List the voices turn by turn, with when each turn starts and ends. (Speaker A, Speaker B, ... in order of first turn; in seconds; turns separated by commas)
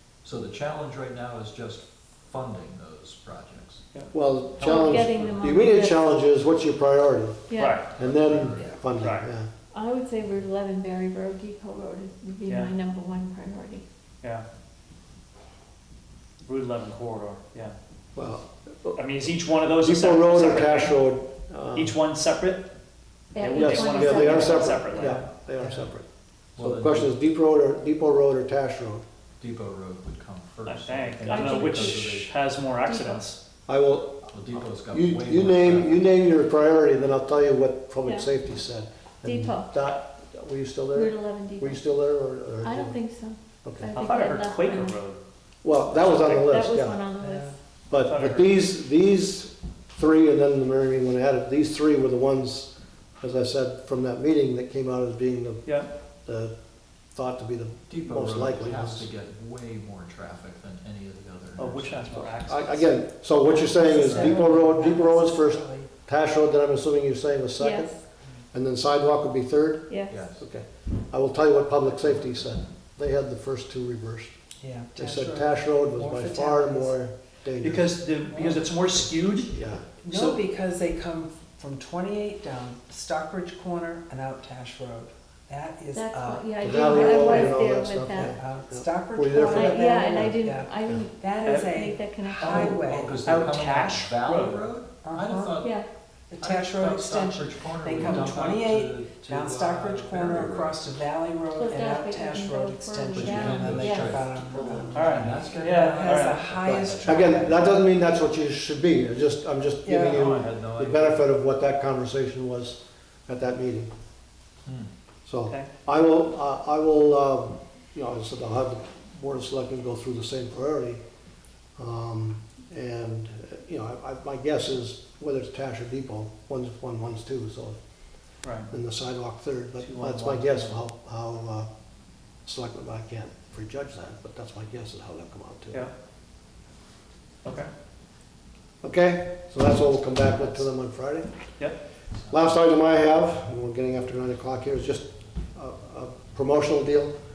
Speaker A: 0.2-3.8, Speaker B: 3.9-5.4, Speaker C: 4.1-7.4, Speaker D: 4.6-6.2, Speaker D: 7.5-7.8, Speaker B: 7.6-7.9, Speaker A: 7.9-8.8, Speaker C: 8.0-9.5, Speaker B: 9.0-9.3, Speaker D: 9.7-13.8, Speaker B: 12.5-12.7, Speaker B: 16.4-17.8, Speaker C: 18.1-19.0, Speaker B: 19.0-21.0, Speaker C: 19.7-22.0, Speaker B: 21.8-22.7, Speaker D: 23.4-25.2, Speaker B: 23.4-25.2, Speaker C: 23.5-26.1, Speaker E: 25.6-25.9, Speaker A: 26.6-27.1, Speaker C: 26.6-29.1, Speaker A: 29.4-32.3, Speaker B: 30.7-33.4, Speaker D: 31.2-32.2, Speaker D: 32.8-33.3, Speaker C: 33.7-43.0, Speaker A: 34.3-36.0, Speaker D: 38.0-38.3, Speaker D: 39.2-39.9, Speaker D: 40.9-41.9, Speaker D: 42.6-45.0, Speaker C: 43.6-43.9, Speaker B: 44.0-45.2, Speaker C: 45.6-47.1, Speaker D: 45.9-47.5, Speaker E: 47.2-47.5, Speaker C: 47.9-55.7, Speaker B: 48.0-48.5, Speaker C: 56.2-56.5, Speaker C: 57.1-59.1, Speaker A: 57.9-62.4, Speaker B: 61.6-63.1, Speaker C: 62.5-67.9, Speaker E: 63.4-65.9, Speaker B: 63.9-64.4, Speaker D: 67.6-67.9, Speaker C: 68.5-74.3, Speaker D: 69.9-70.2, Speaker A: 70.1-70.4, Speaker E: 74.6-77.0, Speaker C: 75.0-77.9, Speaker B: 77.6-79.5, Speaker C: 79.5-79.9, Speaker E: 80.0-87.7, Speaker D: 85.9-88.4, Speaker C: 86.6-91.1, Speaker E: 88.2-93.3, Speaker D: 89.4-92.9, Speaker B: 91.5-91.7, Speaker A: 92.4-95.8, Speaker B: 93.2-94.7, Speaker E: 95.0-95.6, Speaker D: 95.6-95.9, Speaker E: 96.3-107.8, Speaker A: 96.4-100.8, Speaker D: 101.5-104.3, Speaker A: 103.1-107.0, Speaker C: 104.5-105.1, Speaker B: 104.9-107.4, Speaker C: 106.7-113.9, Speaker E: 109.8-110.3, Speaker A: 110.2-111.3, Speaker B: 110.2-110.5, Speaker A: 114.7-114.9, Speaker C: 115.3-121.0, Speaker C: 121.8-127.8, Speaker B: 128.4-128.7, Speaker C: 128.7-131.7, Speaker B: 129.8-130.8, Speaker C: 132.4-135.9, Speaker B: 137.4-137.7, Speaker C: 138.8-141.3, Speaker C: 142.3-147.2